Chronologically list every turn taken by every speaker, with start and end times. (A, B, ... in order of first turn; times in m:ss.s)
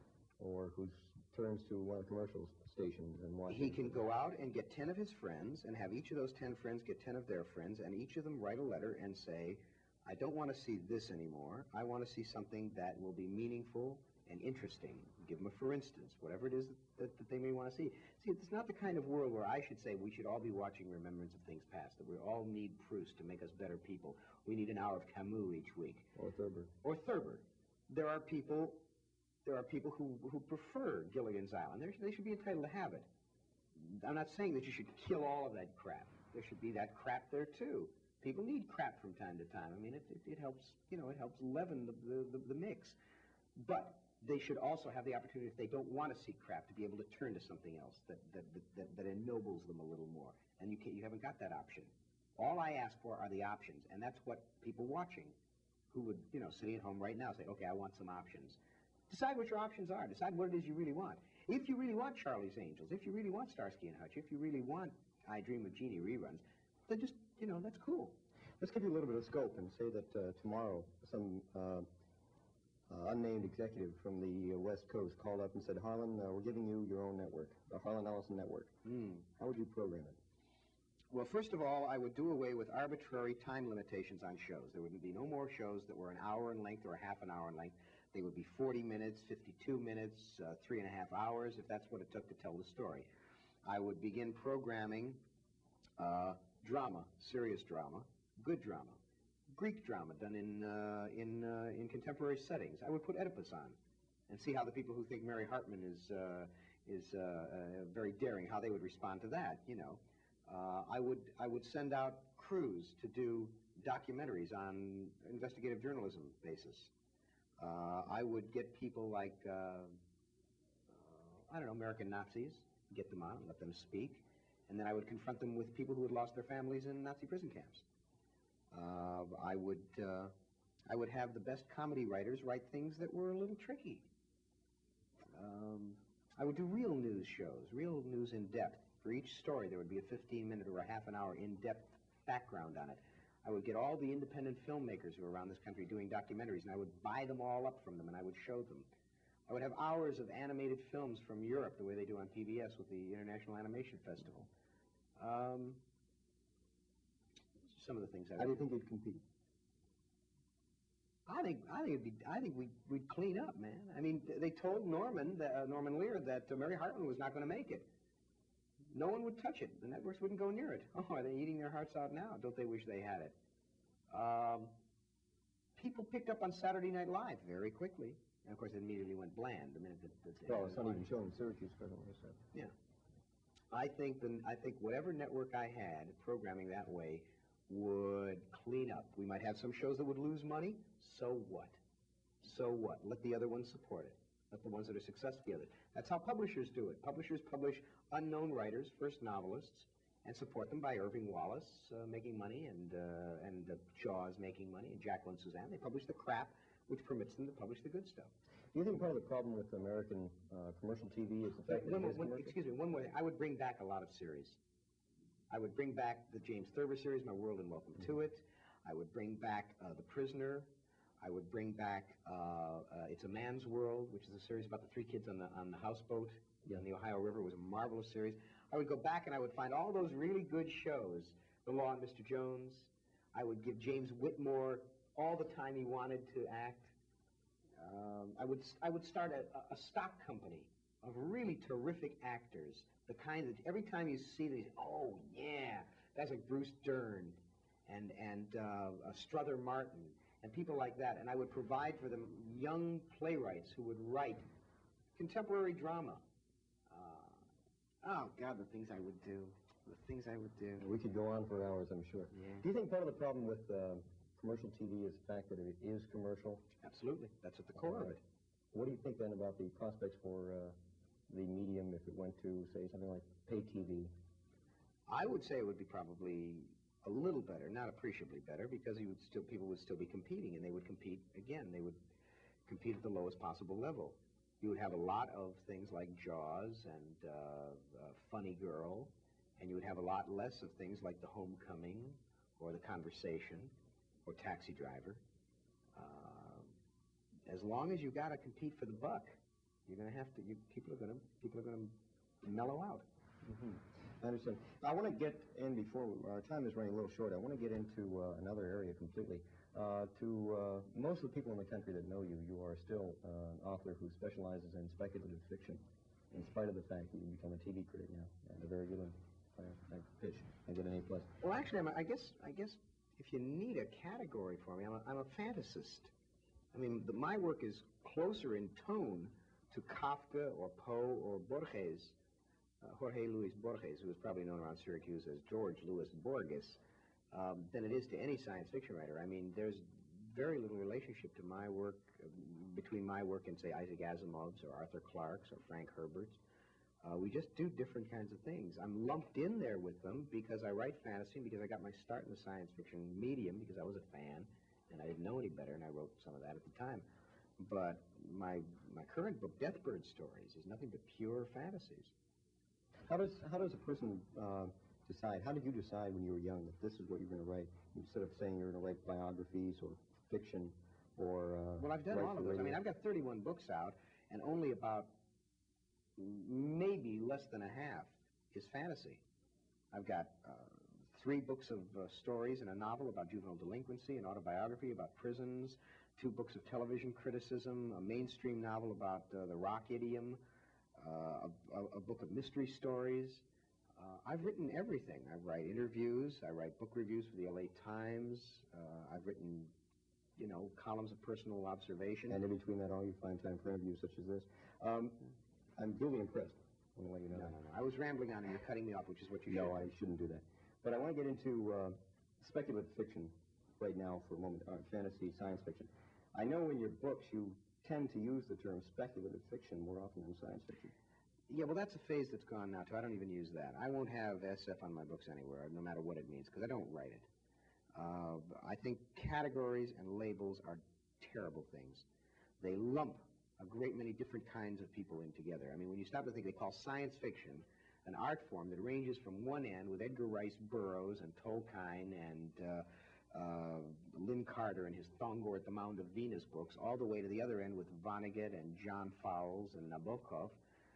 0:00.4-0:04.0 A
0:03.5-0:26.1 B
0:26.2-0:26.7 A
0:26.8-0:28.8 B
0:29.4-0:33.1 B
0:33.8-0:43.0 B
0:43.6-0:55.4 B
0:55.9-0:58.6 B
0:59.1-1:08.2 B
1:08.6-1:11.8 A
1:12.9-1:18.8 A
1:18.8-1:19.2 B
1:19.4-1:20.2 A
1:21.1-1:33.1 B
1:33.6-1:35.2 B
1:36.0-1:56.9 B
1:57.6-2:00.0 B
2:00.9-2:07.8 B
2:08.7-2:10.3 B
2:10.9-2:14.1 B
2:15.3-2:28.9 B
2:29.5-2:34.5 B
2:35.2-2:35.8 B
2:37.6-2:38.6 B
2:38.4-2:39.2 A
2:41.3-2:47.9 B
2:48.9-2:53.3 B
2:54.1-2:54.8 B
2:55.8-3:01.1 B
3:00.4-3:02.4 A
3:03.7-3:11.8 B
3:12.4-3:28.3 B
3:28.7-3:32.6 A
3:31.6-3:34.6 B
3:35.5-3:56.9 B
3:57.8-4:14.4 B
4:15.2-4:16.2 B
4:16.9-4:17.4 B
4:18.0-4:20.9 B
4:20.8-4:26.6 A
4:22.3-4:22.6 B
4:26.8-4:28.2 B
4:27.8-4:28.2 A
4:28.7-4:30.8 A
4:31.3-4:34.1 A
4:35.1-4:42.0 B
4:42.6-4:53.7 B
4:54.2-4:55.2 B
4:55.9-4:56.8 B
4:57.5-5:03.0 B
5:03.4-5:21.3 A
5:21.4-5:26.1 B
5:26.7-5:32.2 B
5:32.8-5:36.8 B
5:37.3-5:46.4 B
5:47.0-5:57.1 B
5:57.6-6:02.1 B
6:03.1-6:12.8 A
6:11.8-6:15.1 B
6:16.2-6:19.2 B
6:19.9-6:30.4 B
6:31.0-6:33.4 B
6:34.0-6:39.7 B
6:40.4-6:42.4 B
6:42.3-6:45.2 A
6:45.8-6:47.6 A
6:47.3-6:49.9 B
6:49.5-7:00.9 A
7:01.5-7:07.3 B
7:08.0-7:12.1 B
7:12.6-7:30.6 B